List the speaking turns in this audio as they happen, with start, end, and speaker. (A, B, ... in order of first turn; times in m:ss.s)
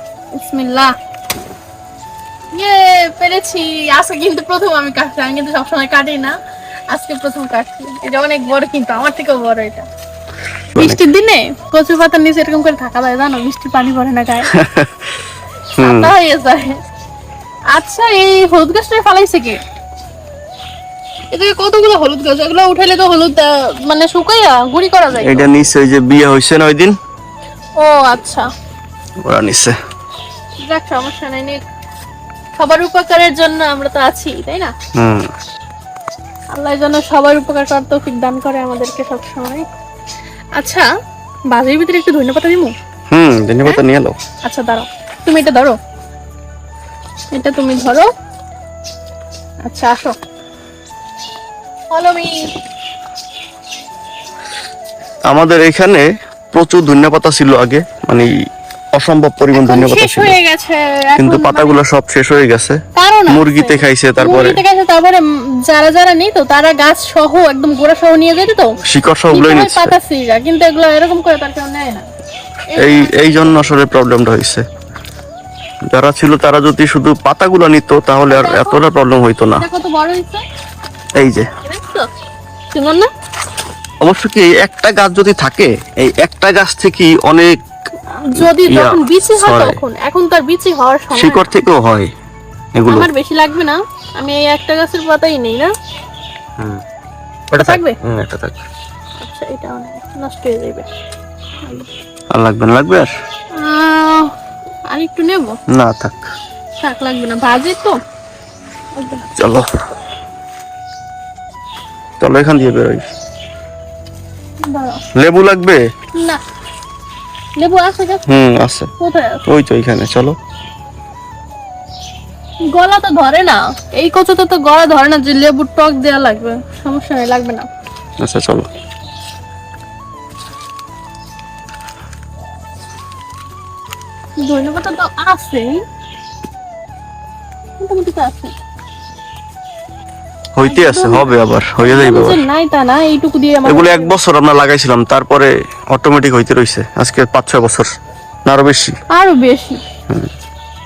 0:00.3-0:00.9 A
0:02.5-0:06.3 A
0:06.9-0:09.8 A
0:10.7-0:11.0 B
0:10.8-0:14.5 A
0:14.5-0:15.1 B
0:15.8-0:16.1 B
0:15.8-0:16.8 A
0:17.7-0:19.6 A
0:21.3-0:25.5 A
0:25.1-0:26.9 B
0:27.8-0:28.5 A
0:29.2-0:29.7 B
0:30.6-0:31.6 A
0:32.6-0:34.7 A
0:35.0-0:35.3 B
0:36.5-0:39.7 A
0:40.6-0:40.8 A
0:41.5-0:42.7 A
0:43.1-0:44.2 B
0:44.4-0:45.8 A
0:47.3-0:48.1 A
0:49.6-0:50.2 A
0:51.9-0:52.4 A
0:55.3-0:58.3 B
0:58.9-1:00.4 B
0:59.5-1:01.8 A
1:01.2-1:04.6 B
1:02.9-1:08.8 A
1:08.8-1:10.0 B
1:09.3-1:12.0 A
1:12.7-1:13.6 A
1:12.8-1:14.6 B
1:15.9-1:19.7 B
1:18.3-1:18.8 A
1:19.6-1:20.4 A
1:21.2-1:21.5 B
1:21.6-1:22.1 A
1:22.7-1:23.1 A
1:24.0-1:27.6 B
1:28.1-1:31.5 A
1:28.4-1:29.8 B
1:31.1-1:32.1 B
1:32.8-1:33.1 B
1:32.9-1:35.7 A
1:37.5-1:38.6 B
1:37.6-1:38.0 A
1:39.2-1:40.9 A
1:42.3-1:43.1 B
1:43.5-1:44.3 A
1:44.9-1:45.6 A
1:45.7-1:46.3 B
1:46.8-1:48.0 A
1:49.0-1:49.3 A
1:49.4-1:49.7 B
1:52.2-1:53.0 B
1:54.6-1:55.0 A
1:55.2-1:55.8 B
1:57.6-1:58.2 A
1:58.3-1:58.9 B
1:59.0-1:59.4 A
1:59.5-2:00.4 B
2:02.7-2:07.7 A
2:08.2-2:08.7 B
2:14.4-2:15.8 A
2:17.8-2:18.5 A
2:20.6-2:22.4 B
2:20.6-2:24.1 A
2:23.6-2:27.9 B
2:28.4-2:28.9 B
2:29.1-2:29.8 A